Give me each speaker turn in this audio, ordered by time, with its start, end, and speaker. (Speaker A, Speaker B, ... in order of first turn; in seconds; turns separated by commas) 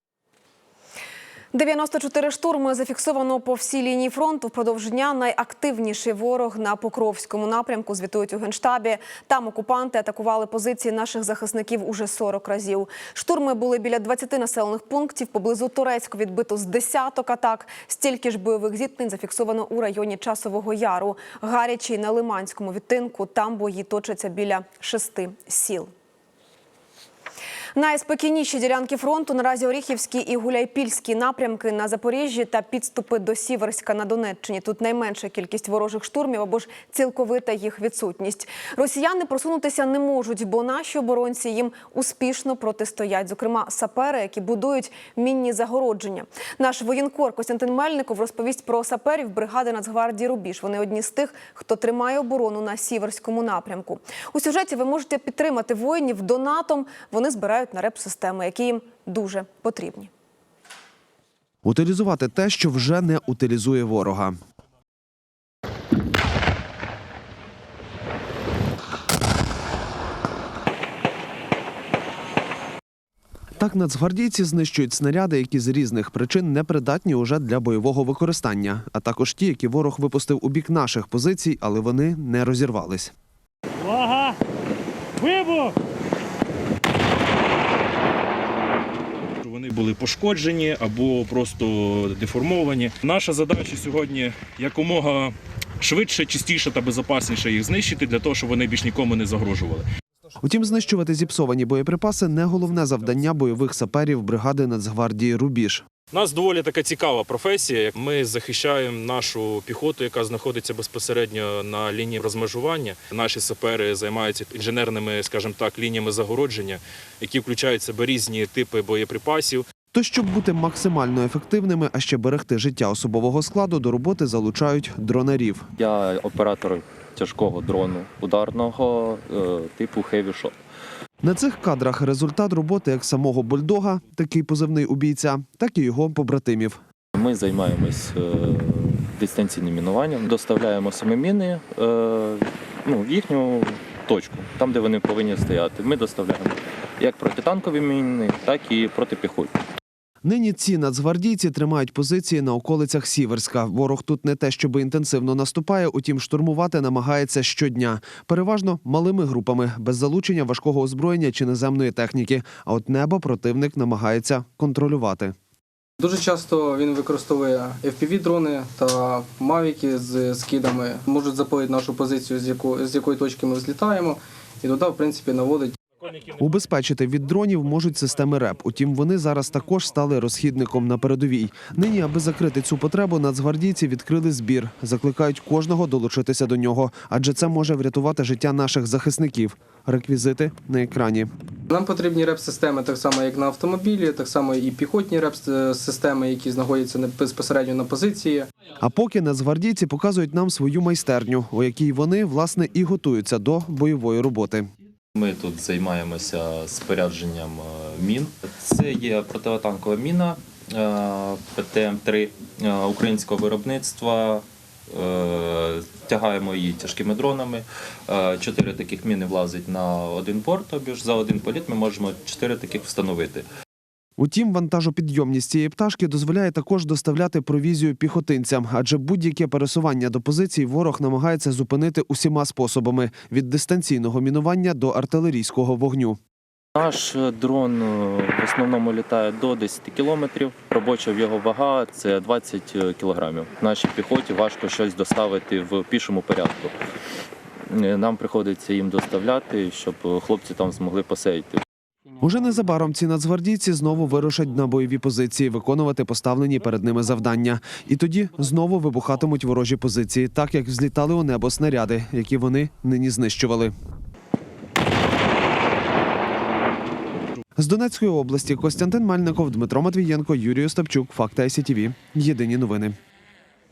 Speaker A: 1.5-25.9, Speaker A: 27.8-60.1, Speaker B: 61.6-64.3, Speaker B: 73.6-83.1, Speaker C: 84.0-84.3, Speaker C: 85.2-85.7, Speaker C: 89.4-99.8, Speaker B: 100.4-105.8, Speaker C: 106.1-119.6, Speaker B: 119.9-125.6, Speaker D: 125.8-130.5, Speaker B: 131.2-136.8, Speaker D: 137.1-149.5, Speaker B: 150.2-165.3, Speaker E: 166.0-175.7, Speaker B: 176.3-191.3, Speaker E: 191.7-198.5, Speaker B: 198.8-204.7, Speaker D: 205.1-223.4, Speaker B: 224.2-236.2, Speaker D: 236.8-246.7, Speaker D: 247.7-251.6, Speaker B: 252.2-263.7, Speaker B: 267.6-272.9